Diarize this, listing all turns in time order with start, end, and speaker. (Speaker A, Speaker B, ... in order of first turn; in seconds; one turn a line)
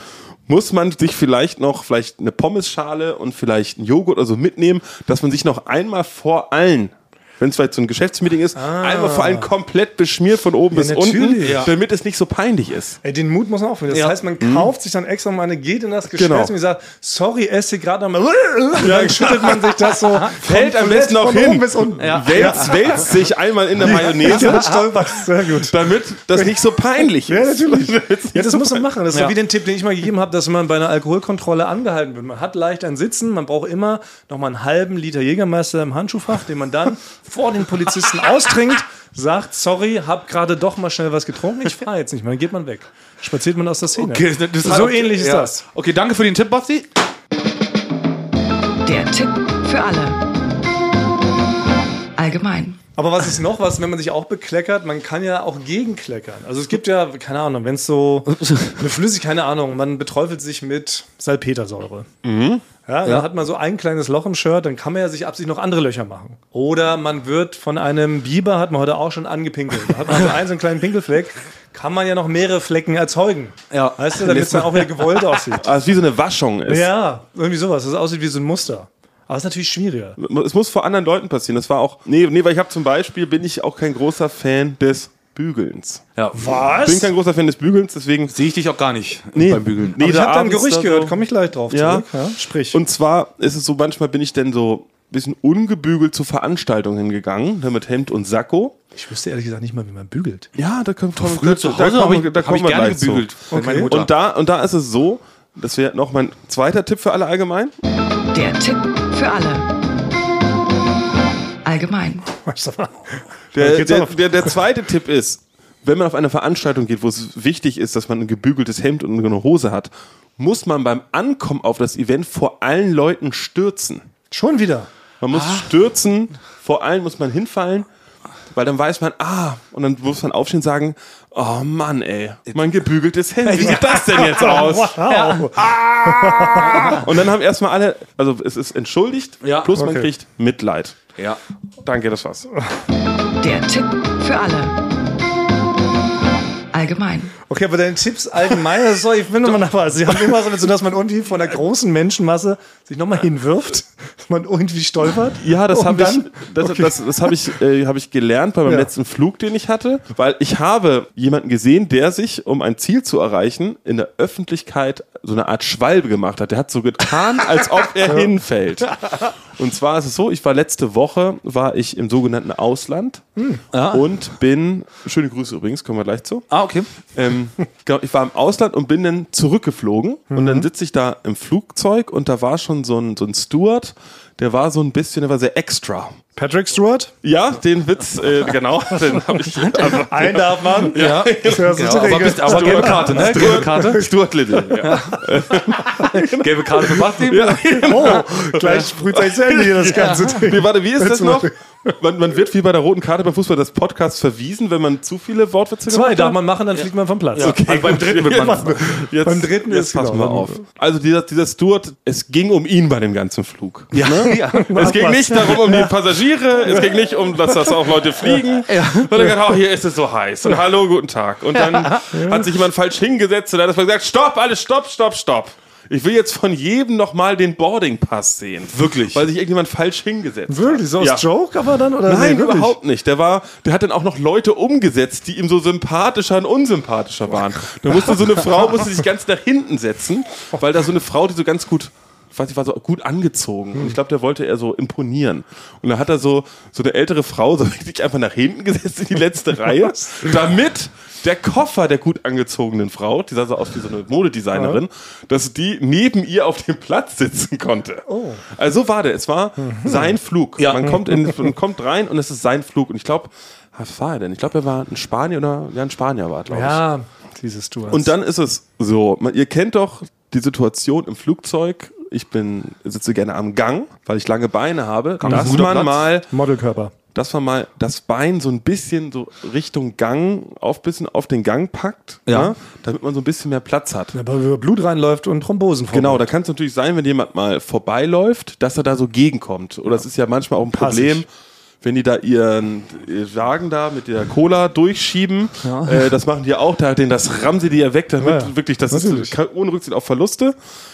Speaker A: 0.5-13.0
Speaker B: 8.6-9.5
Speaker B: 10.7-11.7
Speaker C: 11.4-11.7
Speaker B: 13.0-23.0
Speaker C: 13.9-14.2
Speaker A: 14.4-14.7
Speaker A: 16.1-16.5
Speaker A: 18.8-24.8
Speaker C: 22.0-23.2
Speaker B: 23.8-25.8
Speaker C: 24.0-24.9
Speaker A: 25.4-28.9
Speaker B: 26.3-45.6
Speaker C: 44.0-46.9
Speaker D: 48.8-50.2
Speaker D: 52.2-52.8
Speaker B: 53.0-62.1
Speaker C: 58.3-58.8
Speaker A: 62.2-62.6
Speaker B: 62.9-75.7
Speaker C: 73.7-74.5
Speaker A: 74.2-74.8
Speaker A: 75.5-76.9
Speaker B: 76.7-80.2
Speaker A: 80.2-86.0
Speaker B: 86.3-87.1
Speaker A: 86.8-88.3
Speaker C: 88.3-90.0
Speaker A: 89.3-91.2
Speaker B: 90.0-92.8
Speaker A: 91.7-92.1
Speaker A: 92.7-98.7
Speaker B: 98.9-100.5
Speaker A: 100.5-103.3
Speaker C: 101.2-104.1
Speaker B: 103.5-103.9
Speaker A: 103.8-107.7
Speaker D: 108.3-109.7
Speaker D: 111.6-112.2
Speaker B: 112.4-114.5
Speaker A: 113.5-124.0
Speaker B: 124.3-124.9
Speaker A: 125.2-127.9
Speaker C: 125.3-125.7
Speaker A: 128.5-141.0
Speaker C: 133.4-135.7
Speaker B: 134.1-137.0
Speaker C: 136.6-137.0
Speaker C: 139.4-139.7
Speaker B: 139.8-140.1
Speaker A: 141.8-142.5
Speaker D: 143.4-144.8
Speaker D: 146.7-147.3
Speaker B: 147.5-157.0
Speaker A: 155.4-173.3
Speaker B: 173.4-173.6
Speaker C: 173.7-174.1
Speaker A: 173.9-176.4
Speaker C: 176.5-176.9
Speaker A: 177.1-186.2
Speaker B: 180.3-180.7
Speaker B: 186.3-187.1
Speaker A: 187.2-206.4
Speaker C: 189.6-190.0
Speaker B: 190.1-194.1
Speaker C: 190.9-194.1
Speaker C: 194.7-195.3
Speaker B: 194.8-195.2
Speaker C: 195.8-198.2
Speaker B: 197.7-201.9
Speaker B: 205.9-210.6
Speaker C: 207.3-208.8
Speaker A: 207.4-231.2
Speaker C: 213.9-215.1
Speaker B: 214.2-215.9
Speaker C: 218.7-219.1
Speaker C: 221.5-222.1
Speaker B: 222.1-222.5
Speaker C: 228.7-229.2
Speaker B: 230.5-232.8
Speaker A: 232.0-266.8
Speaker B: 254.5-254.8
Speaker B: 258.1-258.4
Speaker B: 259.6-260.1
Speaker C: 260.6-261.0
Speaker B: 266.5-268.1
Speaker A: 267.9-276.3
Speaker C: 275.2-276.1
Speaker B: 275.2-275.8
Speaker B: 276.3-276.9
Speaker A: 277.1-284.1
Speaker C: 282.3-282.5
Speaker B: 284.1-286.3
Speaker A: 285.9-291.3
Speaker B: 290.7-291.2
Speaker A: 291.8-300.5
Speaker B: 295.6-295.9
Speaker B: 298.2-299.3